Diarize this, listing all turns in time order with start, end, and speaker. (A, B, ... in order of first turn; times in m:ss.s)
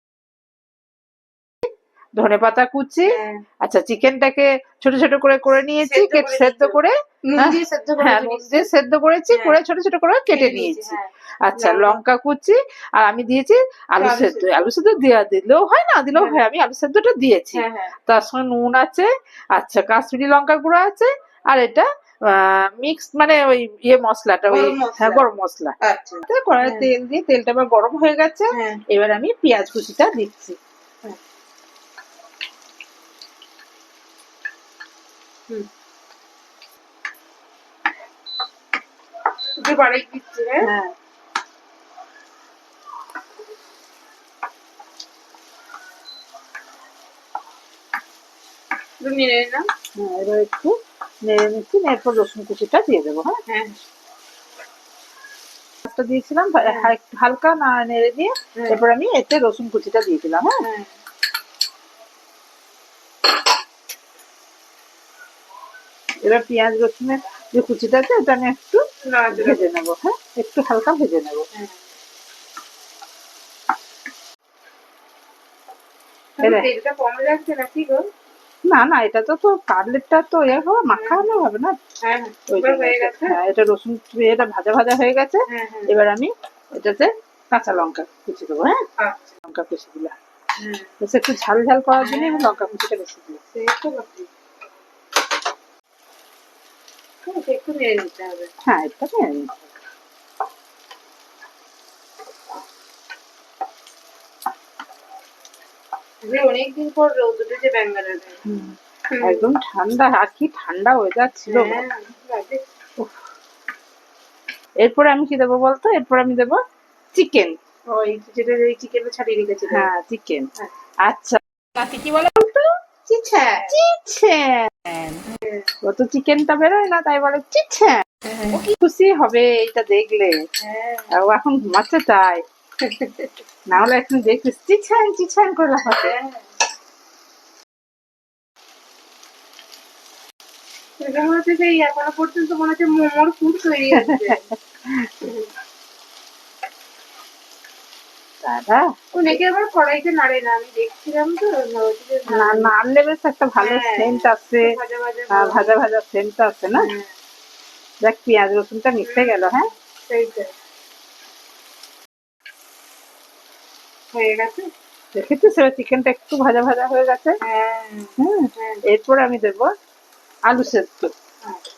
0:02.2-0:25.8 A
0:03.1-0:03.4 B
0:05.8-0:08.7 B
0:09.3-0:09.6 B
0:10.3-0:12.0 B
0:14.0-0:14.7 B
0:16.2-0:16.4 B
0:17.5-0:17.9 B
0:24.5-0:25.3 B
0:25.8-0:26.9 B
0:26.3-0:30.6 A
0:28.5-0:28.8 B
0:39.6-0:40.7 B
0:40.6-0:40.9 A
0:49.0-0:49.7 B
0:50.0-0:53.4 A
0:53.5-0:53.8 B
0:55.8-1:00.6 A
0:56.6-0:56.9 B
0:58.6-0:58.8 B
1:00.6-1:00.9 B
1:06.2-1:11.5 A
1:09.0-1:09.7 B
1:16.4-1:18.1 B
1:16.4-1:16.7 A
1:18.7-1:21.8 A
1:20.9-1:21.4 B
1:22.0-1:23.4 B
1:22.5-1:28.8 A
1:25.5-1:25.9 B
1:29.0-1:29.3 B
1:29.5-1:30.2 A
1:30.6-1:30.9 B
1:31.0-1:33.4 A
1:32.0-1:32.8 B
1:33.5-1:34.3 B
1:37.2-1:38.5 B
1:38.7-1:39.7 A
1:46.2-1:48.4 B
1:48.4-1:51.8 A
1:49.1-1:49.4 B
1:51.5-1:52.6 B
1:54.8-1:56.6 A
1:57.1-1:57.6 A
1:57.9-1:59.9 B
1:59.7-2:00.5 A
2:01.0-2:02.7 A
2:03.1-2:03.7 B
2:03.7-2:05.2 A
2:05.3-2:05.7 B
2:05.8-2:10.4 A
2:08.3-2:08.6 B
2:10.6-2:11.1 B
2:11.1-2:12.4 A
2:12.8-2:13.4 B
2:13.7-2:16.2 A
2:15.8-2:16.4 B
2:21.0-2:24.4 B
2:23.9-2:24.4 A
2:24.9-2:25.1 A
2:25.2-2:25.5 B
2:28.4-2:28.8 A
2:29.1-2:32.7 B
2:32.3-2:34.7 A
2:33.6-2:35.8 B
2:35.3-2:36.9 A
2:36.8-2:37.1 B
2:38.0-2:39.7 A
2:39.0-2:39.6 B
2:40.1-2:40.5 B
2:44.1-2:44.7 B
2:45.2-2:47.4 A
2:47.4-2:48.8 B
2:48.2-2:49.7 A
2:50.5-2:51.1 A